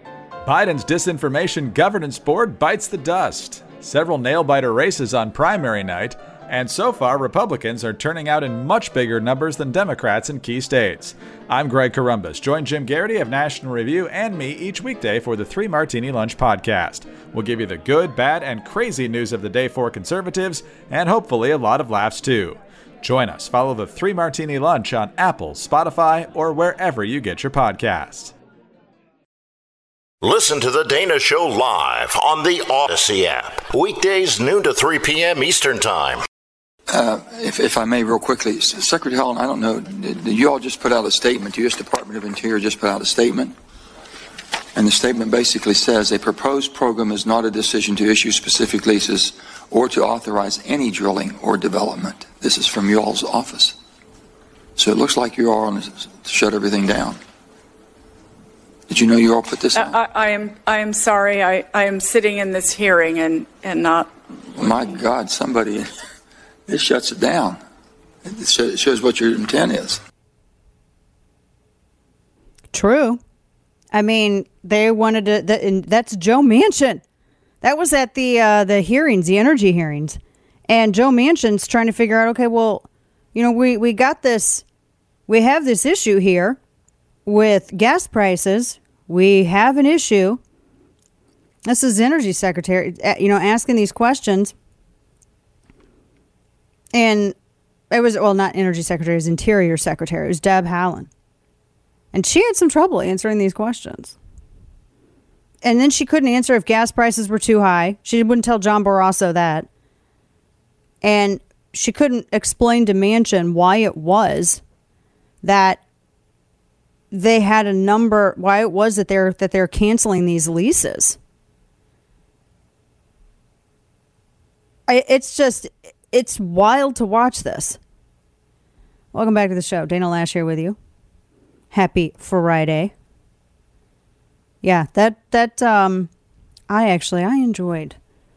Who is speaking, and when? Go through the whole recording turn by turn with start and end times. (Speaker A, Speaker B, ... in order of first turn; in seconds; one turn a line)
Speaker A: 0.5-28.3
Speaker B: 30.2-36.2
Speaker C: 36.9-43.5
Speaker C: 44.8-53.8
Speaker C: 54.8-57.2
Speaker C: 58.9-60.0
Speaker D: 59.7-64.1
Speaker C: 64.6-65.9
Speaker C: 66.7-67.6
Speaker C: 68.2-70.0
Speaker E: 72.7-73.2
Speaker E: 73.9-77.0
Speaker E: 77.6-84.6
Speaker E: 85.3-86.6
Speaker E: 87.3-90.4
Speaker E: 91.7-94.5
Speaker E: 96.9-97.3
Speaker E: 97.9-101.1
Speaker E: 102.1-104.2
Speaker E: 105.6-109.7
Speaker E: 111.0-114.6
Speaker E: 115.4-115.8
Speaker E: 117.1-121.2
Speaker E: 124.9-127.8
Speaker E: 129.1-130.8
Speaker E: 131.7-132.9
Speaker E: 134.6-136.1
Speaker E: 136.7-138.0